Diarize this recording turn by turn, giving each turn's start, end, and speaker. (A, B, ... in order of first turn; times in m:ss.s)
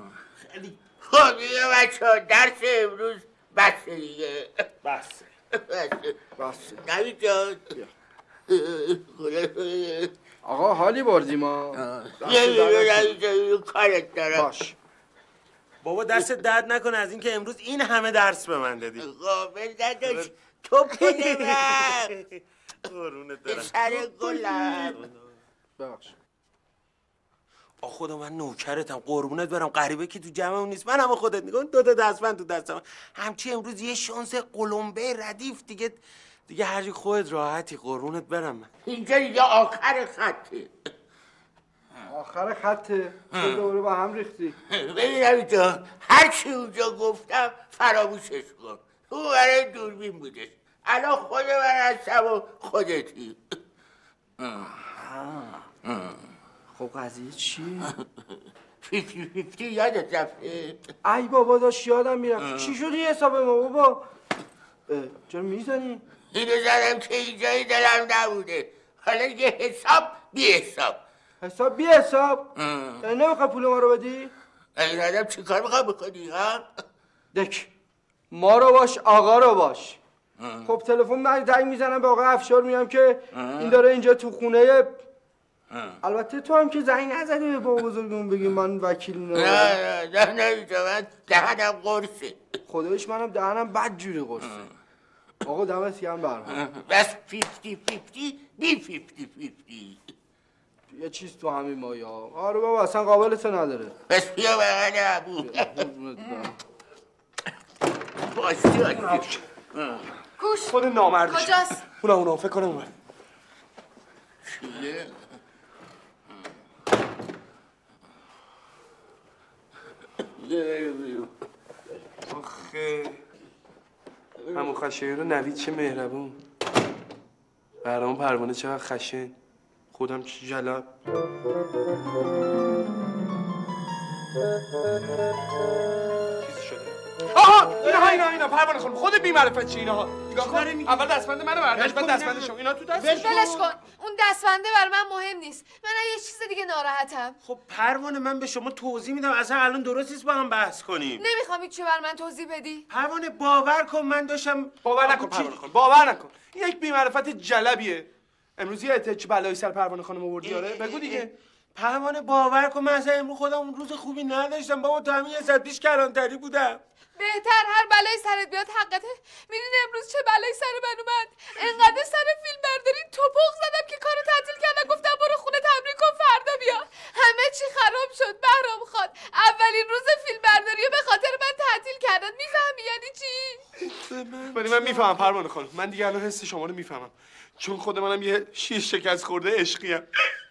0:01.0-0:04.6 A
0:04.8-0:05.3 B
0:05.5-0:06.2 A
0:06.4-0:06.8 C
0:06.8-0:07.7 A
0:08.5-0:10.1 A
0:10.4-0:13.1 C
0:12.2-0:14.5 A
0:14.3-0:14.7 C
0:15.8-0:19.0 B
0:19.0-0:22.1 A
0:20.0-0:20.3 B
0:20.9-0:25.2 B
0:23.4-0:25.0 A
0:25.8-0:26.1 C
0:27.8-0:38.7 B
0:38.8-0:40.7 A
0:42.1-0:44.6 C
0:44.7-0:53.6 A
0:55.1-0:55.5 C
0:56.7-0:57.9 C
0:58.8-1:00.8 A
1:01.0-1:04.0 C
1:04.9-1:06.0 C
1:06.3-1:11.0 A
1:11.4-1:14.3 C
1:14.8-1:16.6 A
1:17.3-1:17.7 C
1:18.3-1:20.0 C
1:20.6-1:25.0 C
1:26.0-1:29.8 C
1:29.3-1:32.4 A
1:32.7-1:34.7 C
1:35.4-1:36.6 C
1:36.6-1:40.1 A
1:40.9-1:43.9 C
1:44.1-1:45.8 A
1:45.4-1:46.6 C
1:48.3-1:49.4 A
1:50.4-1:51.8 D
1:50.7-1:52.9 E
1:54.4-1:55.1 A
2:00.4-2:01.3 A
2:02.3-2:03.2 E
2:04.5-2:06.4 E
2:07.8-2:09.3 E
2:09.9-2:10.8 E
2:16.4-2:23.7 E
2:17.8-2:18.3 B
2:20.3-2:21.2 B
2:21.7-2:23.3 B
2:23.1-2:27.4 D
2:27.4-2:31.2 B
2:31.2-2:32.8 D
2:32.9-2:35.6 B
2:34.8-2:41.3 E
2:40.4-2:46.8 B
2:47.2-3:03.6 D
3:03.9-3:10.0 E
3:04.0-3:05.2 B